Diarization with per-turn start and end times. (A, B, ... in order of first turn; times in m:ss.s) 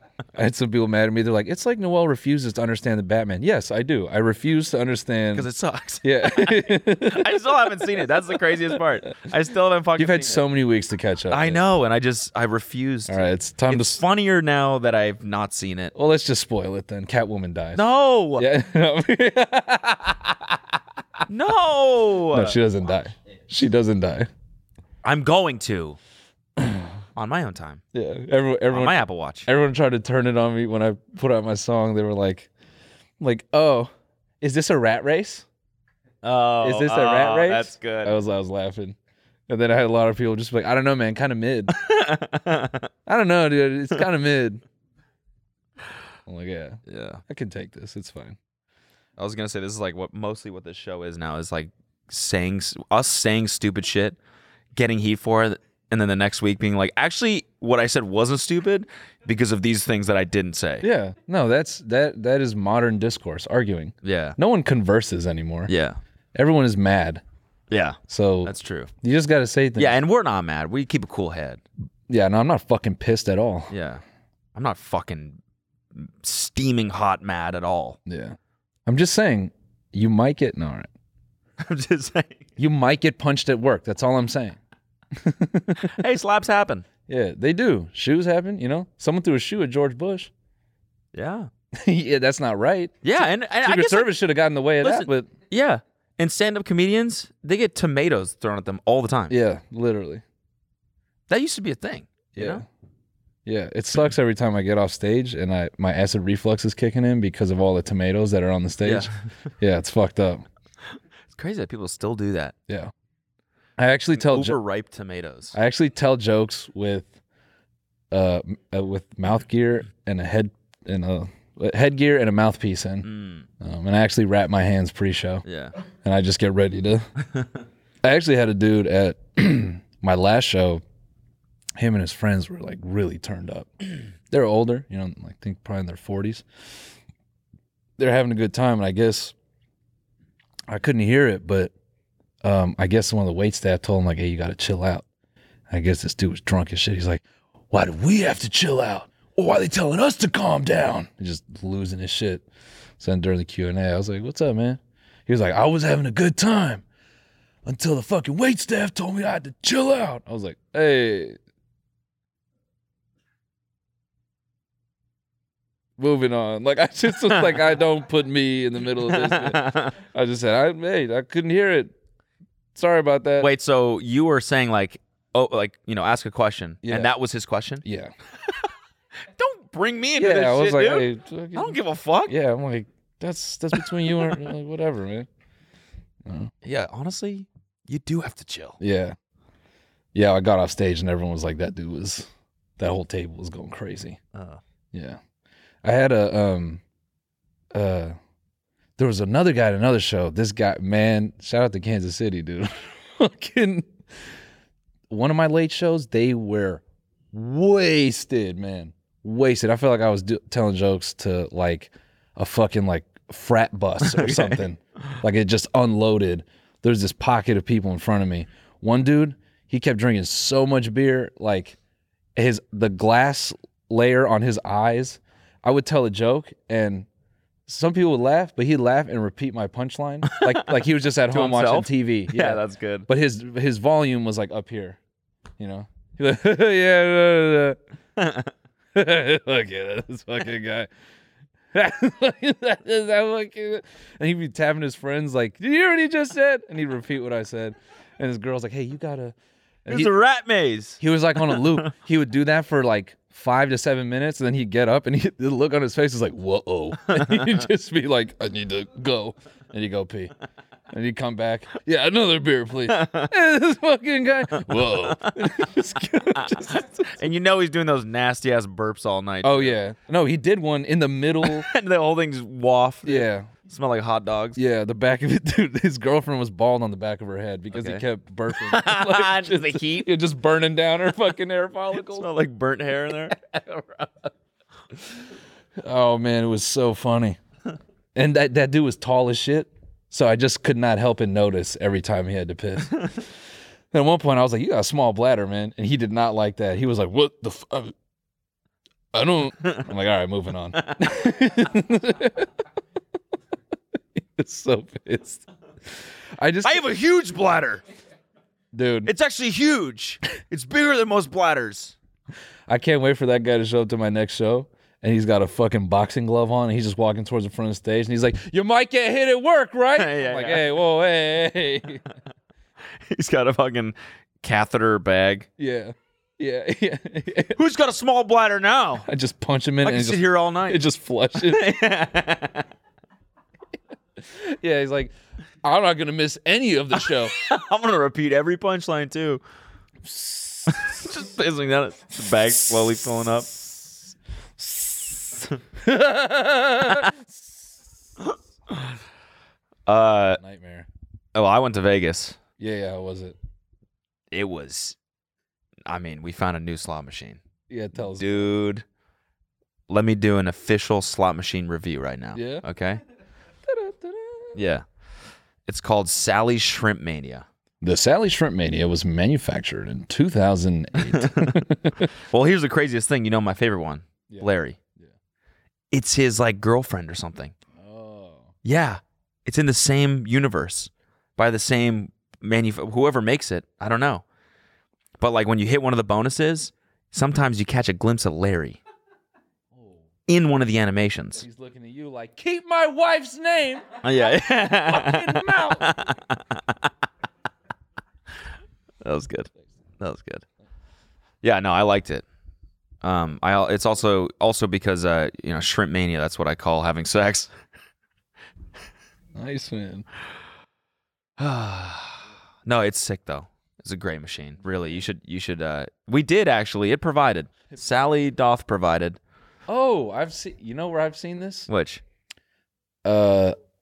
0:00.4-0:05.5 A
0:05.3-0:10.4 B
0:06.0-0:07.6 A
0:10.0-0:11.6 A
0:11.3-0:15.9 B
0:13.1-0:14.0 A
0:15.9-0:17.8 A
0:17.8-0:18.5 B
0:18.4-0:20.6 A
0:21.3-0:22.6 B
0:22.3-0:24.3 A
0:25.0-0:26.0 B
0:26.6-0:26.9 A
0:27.2-0:27.8 B
0:27.9-0:32.5 A
0:28.7-0:29.5 B
0:33.2-0:35.5 A
0:36.2-0:38.2 B
0:36.6-0:39.0 A
0:39.5-0:41.8 A
0:41.7-0:42.9 B
0:43.1-0:44.6 A
0:46.3-0:48.4 A
0:46.9-0:47.2 B
0:49.2-0:54.2 B
0:54.8-1:00.8 B
1:00.8-1:05.7 A
1:04.0-1:04.4 B
1:05.7-1:06.0 B
1:06.4-1:07.2 A
1:07.7-1:08.9 B
1:08.1-1:10.0 A
1:09.8-1:11.6 B
1:12.1-1:13.7 A
1:13.7-1:14.0 B
1:14.5-1:15.4 B
1:15.9-1:18.0 B
1:18.1-1:20.9 A
1:21.6-1:22.5 B
1:22.6-1:24.6 A
1:25.2-1:26.0 A
1:25.8-1:26.9 B
1:27.1-1:30.3 A
1:31.1-1:31.5 B
1:31.8-1:35.3 A
1:33.0-1:34.1 B
1:34.8-1:39.3 B
1:39.3-1:40.2 A
1:41.3-1:42.6 B
1:42.4-1:42.7 A
1:43.5-1:50.4 A
1:48.8-1:49.1 B
1:50.9-1:52.5 B
1:53.8-1:54.6 A
1:54.1-1:55.6 B
1:55.5-1:57.1 A
1:58.1-2:03.1 A
2:03.0-2:03.5 B
2:03.6-2:05.4 A
2:05.4-2:05.8 B
2:06.0-2:07.1 A
2:08.0-2:10.8 A
2:11.8-2:16.4 A
2:18.0-2:19.4 A
2:20.7-2:21.7 A
2:22.4-2:25.0 A
2:25.7-2:32.4 A
2:33.0-2:36.8 A
2:37.6-2:41.4 A
2:46.0-2:51.9 A
2:47.2-2:47.7 B
2:49.0-2:50.0 B
2:52.8-2:53.5 A
2:53.4-2:57.8 B
2:56.8-2:57.1 A
2:57.8-2:58.1 A
2:58.4-2:58.7 B
2:59.2-3:02.4 B
3:00.2-3:05.3 A
3:03.7-3:04.5 B
3:06.3-3:06.5 A
3:06.6-3:08.8 B
3:08.8-3:09.2 A
3:10.1-3:14.2 A
3:14.3-3:14.6 B
3:14.9-3:15.2 A
3:15.8-3:16.8 A
3:17.7-3:18.2 A
3:19.0-3:24.0 A
3:25.1-3:41.8 A
3:34.0-3:34.6 B
3:42.4-3:47.1 A
3:47.7-3:55.0 A
3:50.3-3:53.1 B
3:55.6-3:57.8 A
3:58.2-3:58.5 B
3:59.0-4:00.9 A
4:01.7-4:09.4 A
4:09.9-4:10.1 A
4:09.9-4:11.9 B
4:11.0-4:20.3 A
4:17.1-4:17.6 B
4:20.9-4:27.2 A
4:22.9-4:23.3 B
4:24.6-4:25.6 B
4:26.4-4:29.8 B
4:29.4-4:31.7 A
4:31.4-4:34.6 B
4:33.0-4:33.5 A
4:34.6-4:42.3 A
4:37.7-4:40.1 B
4:41.9-4:43.4 B
4:43.3-4:44.3 A
4:45.8-4:47.4 A
4:48.2-4:53.3 A
4:53.9-4:57.9 A
4:59.1-5:02.5 A
5:04.2-5:05.4 A
5:06.4-5:06.8 A
5:06.6-5:07.8 B
5:08.7-5:09.1 A
5:09.0-5:12.0 B
5:12.7-5:22.0 A
5:20.0-5:20.8 B
5:22.9-5:25.5 B
5:25.6-5:27.6 A
5:27.6-5:29.1 B
5:29.0-5:31.7 A
5:29.8-5:30.8 B
5:31.4-5:32.7 B
5:34.2-5:37.4 A
5:36.9-5:39.4 B
5:40.0-5:41.1 A
5:40.7-5:43.5 B
5:42.9-5:43.9 A
5:44.6-5:45.2 A
5:45.7-5:48.2 A
5:48.2-5:48.9 B
5:49.9-5:50.4 B
5:50.4-5:50.9 A
5:51.4-5:52.4 B
5:52.6-5:53.4 A
5:54.3-5:55.0 B
5:55.9-5:57.4 B
5:57.7-5:58.6 A
5:58.0-5:58.8 B
5:59.9-6:03.0 B
6:02.4-6:02.6 A
6:03.7-6:04.6 A
6:04.6-6:04.9 B
6:05.7-6:07.5 B
6:07.8-6:12.1 A
6:11.0-6:14.8 B
6:14.3-6:15.1 A
6:15.9-6:17.5 B
6:17.8-6:18.5 A
6:18.6-6:24.2 B
6:25.2-6:28.8 B
6:29.8-6:30.0 A
6:30.3-6:31.4 B
6:31.4-6:35.9 A
6:34.0-6:36.9 B
6:39.0-6:40.4 B
6:41.4-6:42.2 B
6:43.0-6:47.5 B
6:49.4-6:50.1 A
6:51.4-6:59.2 B
6:59.7-7:01.7 A
7:01.7-7:02.0 B
7:03.0-7:03.6 A